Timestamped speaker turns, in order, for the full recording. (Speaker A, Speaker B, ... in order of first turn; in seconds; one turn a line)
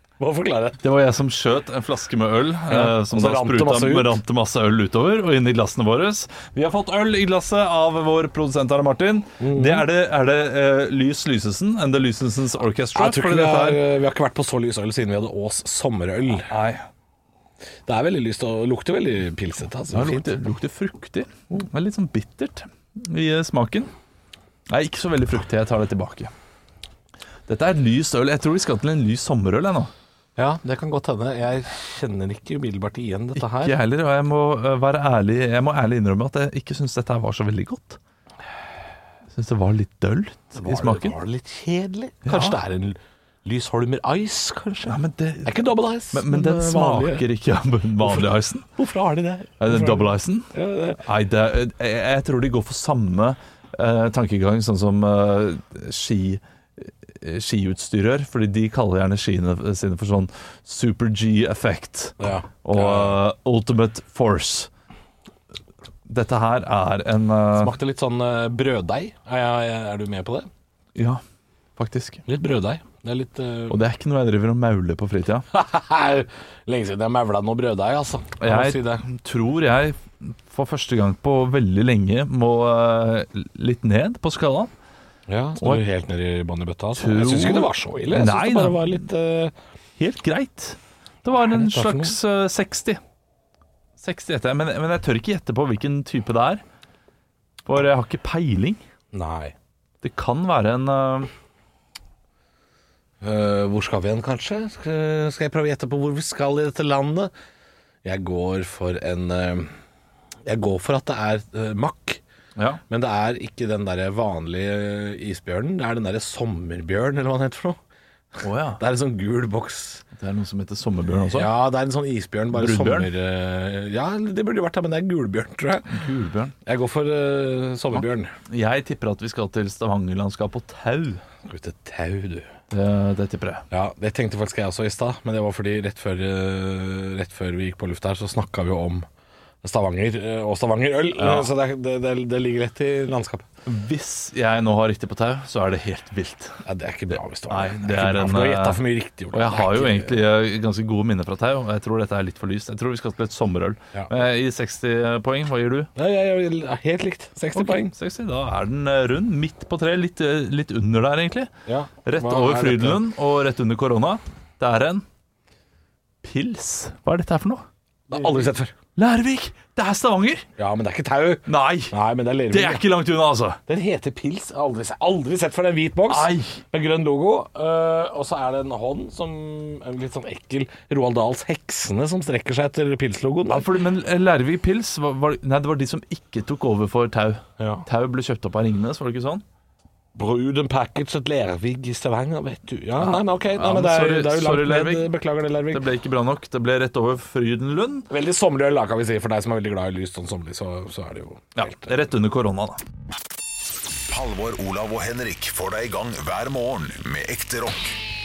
Speaker A: 0.2-0.8
Speaker B: 0.8-13.8
Speaker A: 2.7-4.2
Speaker A: 9.4-9.8
Speaker A: 12.9-16.5
Speaker B: 16.4-16.8
Speaker A: 17.9-20.3
Speaker B: 19.9-23.9
Speaker B: 24.7-26.3
Speaker B: 27.5-29.9
Speaker A: 30.4-33.8
Speaker B: 33.4-38.0
Speaker B: 39.3-41.2
Speaker A: 40.5-47.2
Speaker B: 42.2-42.6
Speaker B: 44.9-48.6
Speaker A: 48.0-51.0
Speaker B: 49.6-50.5
Speaker B: 51.0-64.7
Speaker A: 62.2-63.2
Speaker B: 66.1-67.7
Speaker A: 67.5-70.5
Speaker B: 70.9-71.2
Speaker B: 71.8-72.2
Speaker A: 72.2-73.8
Speaker B: 73.7-75.5
Speaker A: 75.5-79.0
Speaker B: 78.4-84.7
Speaker A: 85.3-89.5
Speaker B: 85.6-85.8
Speaker B: 86.9-89.0
Speaker B: 90.0-93.0
Speaker A: 91.4-92.1
Speaker B: 94.0-96.6
Speaker B: 97.7-98.8
Speaker A: 99.1-99.5
Speaker B: 100.0-101.3
Speaker A: 103.2-107.3
Speaker A: 108.0-109.7
Speaker A: 110.4-112.2
Speaker B: 112.5-112.8
Speaker A: 112.9-117.8
Speaker B: 118.4-118.8
Speaker A: 118.8-120.0
Speaker B: 120.1-121.5
Speaker A: 121.3-125.9
Speaker B: 122.5-123.1
Speaker B: 125.9-126.5
Speaker A: 126.6-128.3
Speaker B: 127.9-131.2
Speaker A: 131.5-132.5
Speaker B: 132.7-133.6
Speaker A: 133.7-139.0
Speaker A: 139.6-143.4
Speaker B: 141.2-141.5
Speaker B: 143.7-146.6
Speaker A: 146.7-150.2
Speaker B: 147.5-148.8
Speaker B: 149.3-155.9
Speaker A: 155.9-157.9
Speaker B: 157.5-161.5
Speaker A: 161.7-163.0
Speaker B: 162.0-165.0
Speaker B: 166.2-167.6
Speaker A: 168.1-168.7
Speaker B: 168.9-170.4
Speaker A: 170.6-172.8
Speaker B: 171.4-171.9
Speaker B: 172.5-173.6
Speaker A: 173.7-183.7
Speaker B: 176.1-176.6
Speaker B: 183.5-189.4
Speaker A: 187.6-187.8
Speaker A: 190.1-195.8
Speaker B: 193.0-195.1
Speaker B: 195.7-198.1
Speaker A: 198.1-202.0
Speaker B: 201.5-202.8
Speaker C: 204.1-208.0